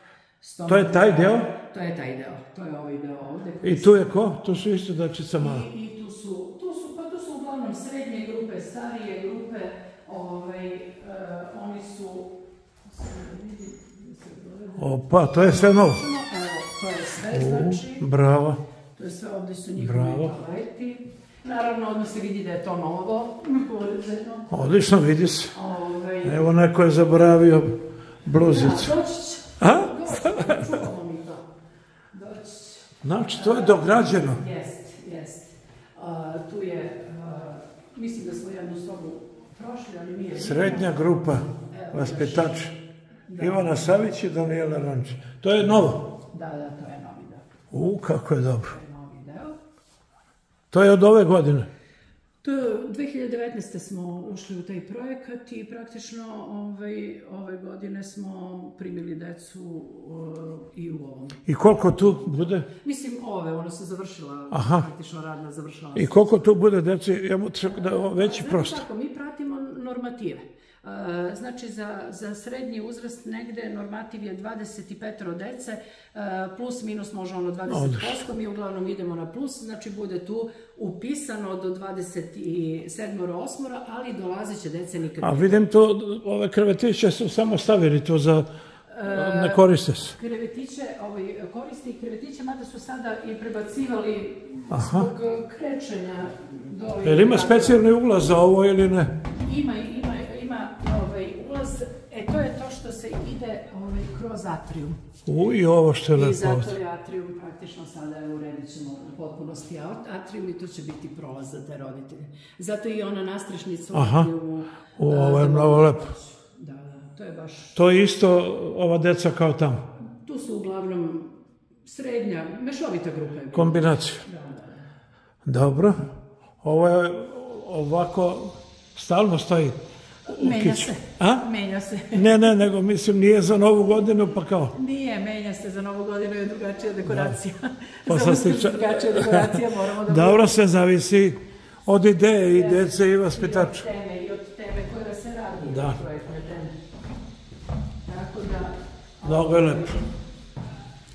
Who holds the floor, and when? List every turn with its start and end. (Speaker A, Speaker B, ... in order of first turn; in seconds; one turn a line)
Speaker A: 0.4-4.1
Speaker B: 0.7-1.5
Speaker B: 3.6-5.7
Speaker A: 5.4-12.3
Speaker A: 12.9-18.1
Speaker B: 14.8-16.0
Speaker B: 17.3-18.6
Speaker A: 19.0-24.8
Speaker B: 19.8-20.3
Speaker B: 24.5-25.6
Speaker A: 25.5-26.4
Speaker B: 26.2-28.9
Speaker A: 28.4-31.4
Speaker B: 29.6-30.8
Speaker A: 32.1-41.0
Speaker B: 33.0-34.4
Speaker B: 40.4-42.8
Speaker A: 41.6-42.7
Speaker A: 43.3-44.0
Speaker B: 43.4-46.1
Speaker A: 46.1-47.5
Speaker B: 47.7-48.7
Speaker A: 48.6-49.6
Speaker B: 50.7-51.7
Speaker A: 52.4-61.4
Speaker B: 61.5-62.7
Speaker A: 62.1-66.4
Speaker B: 64.5-64.9
Speaker B: 66.0-68.8
Speaker A: 67.7-85.6
Speaker B: 77.7-78.2
Speaker B: 85.2-88.5
Speaker A: 88.9-97.8
Speaker B: 89.1-90.2
Speaker B: 94.7-95.1
Speaker B: 97.0-99.2
Speaker A: 99.4-105.0
Speaker B: 105.3-106.8
Speaker A: 106.1-117.8
Speaker B: 113.9-114.3
Speaker B: 115.0-116.1
Speaker B: 117.8-119.8
Speaker A: 120.2-124.8
Speaker B: 123.5-124.2
Speaker B: 125.5-129.8
Speaker A: 130.3-132.3
Speaker B: 130.3-131.5
Speaker B: 132.1-134.8
Speaker A: 134.7-140.7
Speaker B: 137.1-137.3
Speaker B: 138.1-143.9
Speaker A: 142.5-146.8
Speaker B: 145.6-146.0
Speaker A: 148.1-150.1
Speaker B: 149.2-150.0